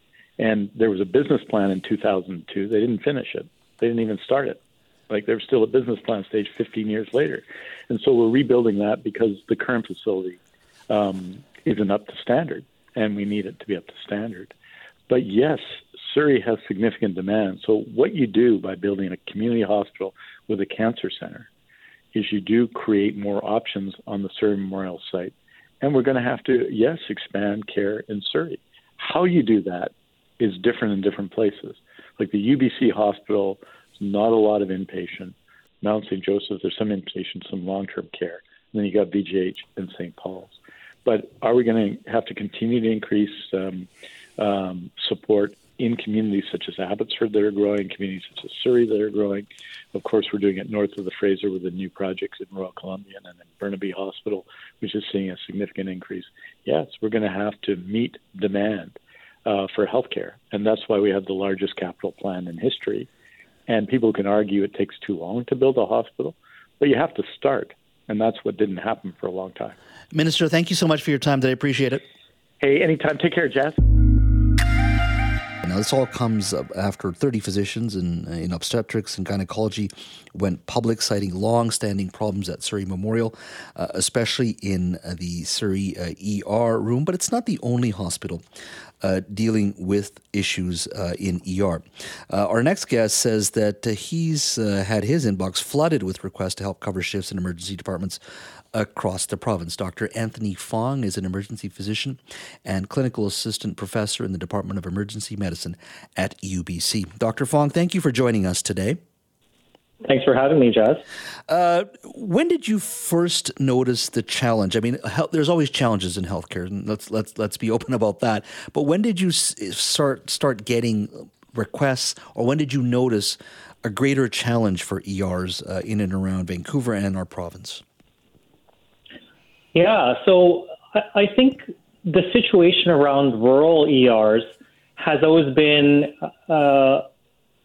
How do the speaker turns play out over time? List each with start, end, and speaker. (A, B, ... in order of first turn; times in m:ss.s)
0:00.4-0:14.5 A
0:15.1-0:21.5 A
0:22.1-1:03.1 A
1:03.7-1:09.8 A
1:10.1-1:12.0 B
1:12.6-1:14.0 A
1:15.6-1:28.4 B
1:29.0-1:38.2 B
1:38.7-1:49.0 B
1:50.0-1:51.0 C
1:51.5-2:07.8 B
2:09.7-2:17.1 C